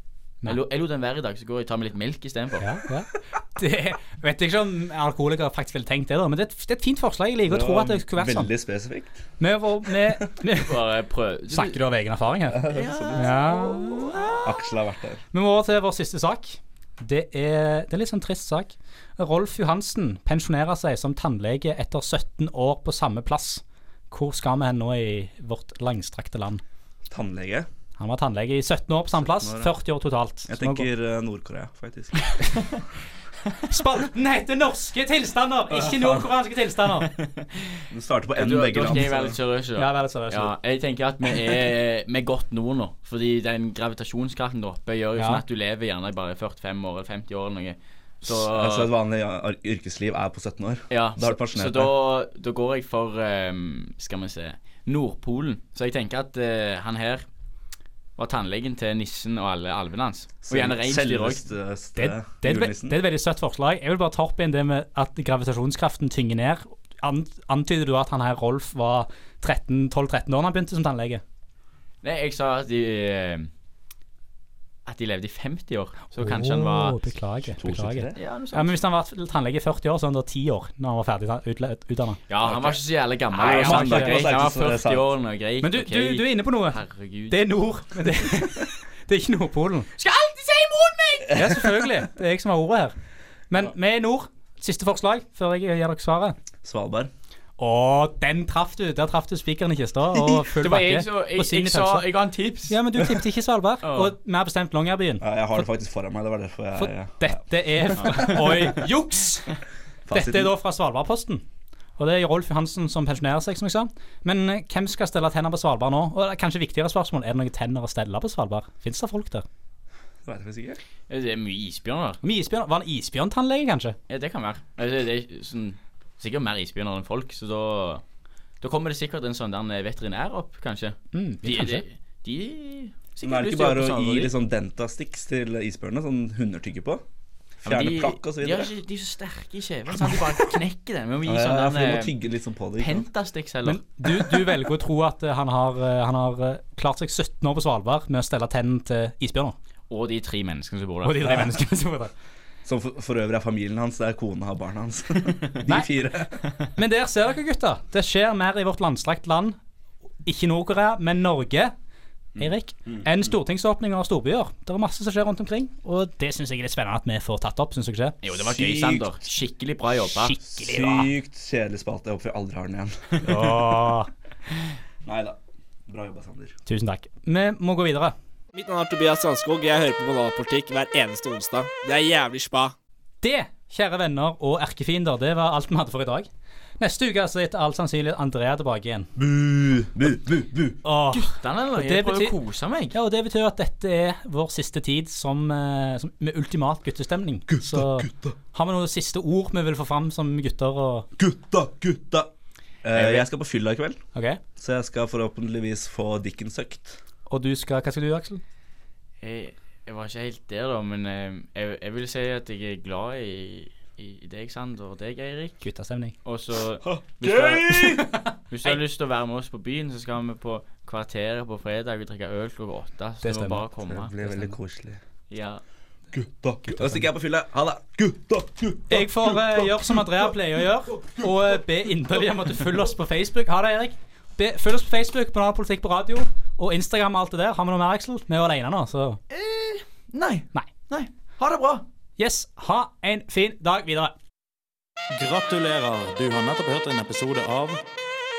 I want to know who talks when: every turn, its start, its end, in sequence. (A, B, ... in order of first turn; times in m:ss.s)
0:00.4-0:02.7 A
0:02.6-0:08.5 B
0:07.5-0:09.2 C
0:09.4-0:10.8 B
0:10.5-0:11.8 A
0:11.5-0:14.0 B
0:12.5-0:13.4 C
0:12.7-0:14.5 A
0:14.4-0:15.2 C
0:15.3-0:26.6 B
0:27.1-0:27.7 C
0:28.0-0:30.9 B
0:29.1-0:29.7 C
0:30.5-0:32.3 C
0:33.7-0:37.1 B
0:35.8-0:36.2 C
0:37.0-0:37.8 A
0:37.9-0:39.4 C
0:38.4-0:48.9 A
0:39.8-0:40.5 B
0:45.2-0:45.4 B
0:48.2-0:51.9 C
0:50.9-0:57.3 A
0:58.2-1:01.4 A
1:00.4-1:03.0 C
1:02.0-1:11.2 B
1:12.0-1:13.5 A
1:14.9-1:17.0 A
1:16.2-1:22.2 B
1:17.5-1:18.2 C
1:18.2-1:18.8 A
1:22.3-1:27.5 A
1:22.4-1:22.8 C
1:23.3-1:24.2 B
1:23.4-1:25.1 C
1:25.6-1:29.9 B
1:30.0-1:31.4 A
1:31.3-1:33.0 B
1:33.5-1:36.4 B
1:36.6-1:37.1 C
1:37.6-1:42.1 B
1:40.4-1:42.8 A
1:42.7-1:45.2 B
1:43.8-1:44.1 A
1:45.2-1:48.7 C
1:46.8-1:49.5 B
1:48.0-1:48.8 A
1:50.1-1:50.5 C
1:50.1-1:51.4 B
1:52.0-1:59.4 B
2:00.2-2:00.8 C
2:01.1-2:02.2 A
2:02.2-2:04.0 B
2:04.1-2:08.0 A
2:08.6-2:14.3 A
2:11.1-2:11.8 B
2:13.2-2:17.0 C
2:17.6-2:22.2 A
2:17.6-2:18.7 C
2:19.9-2:20.3 C
2:21.2-2:23.1 C
2:22.8-2:24.3 A
2:23.6-2:29.6 B
2:29.9-2:31.5 A
2:31.0-2:32.1 B
2:32.6-2:36.4 C
2:36.8-2:39.6 B
2:40.2-2:41.7 B
2:42.4-2:43.1 C
2:42.4-2:48.2 B
2:48.2-2:50.4 A
2:48.3-2:49.1 C
2:50.1-2:51.1 B
2:50.5-2:53.6 C
2:53.2-2:54.1 B
2:55.0-2:56.6 C
2:56.7-2:58.1 B
2:58.5-3:02.8 D
3:03.2-3:06.3 B
3:06.8-3:09.1 B
3:09.2-3:10.8 C
3:10.8-3:12.4 B
3:11.1-3:13.0 A
3:12.9-3:21.1 B
3:17.5-3:18.4 C
3:21.2-3:22.3 C
3:22.8-3:24.0 C
3:24.2-3:24.4 B
3:24.6-3:27.0 C
3:27.3-3:28.4 B
3:29.2-3:35.6 A
3:35.6-3:36.1 B
3:36.2-3:37.9 A
3:36.8-3:38.1 C
3:38.1-3:38.8 B
3:38.5-3:44.5 A
3:43.2-3:43.6 B
3:43.9-3:45.0 C
3:45.3-3:45.6 A
3:46.1-3:50.3 C
3:46.6-3:47.0 B
3:48.9-3:59.2 B
3:59.3-4:01.8 A
4:02.2-4:04.1 B
4:05.1-4:07.8 E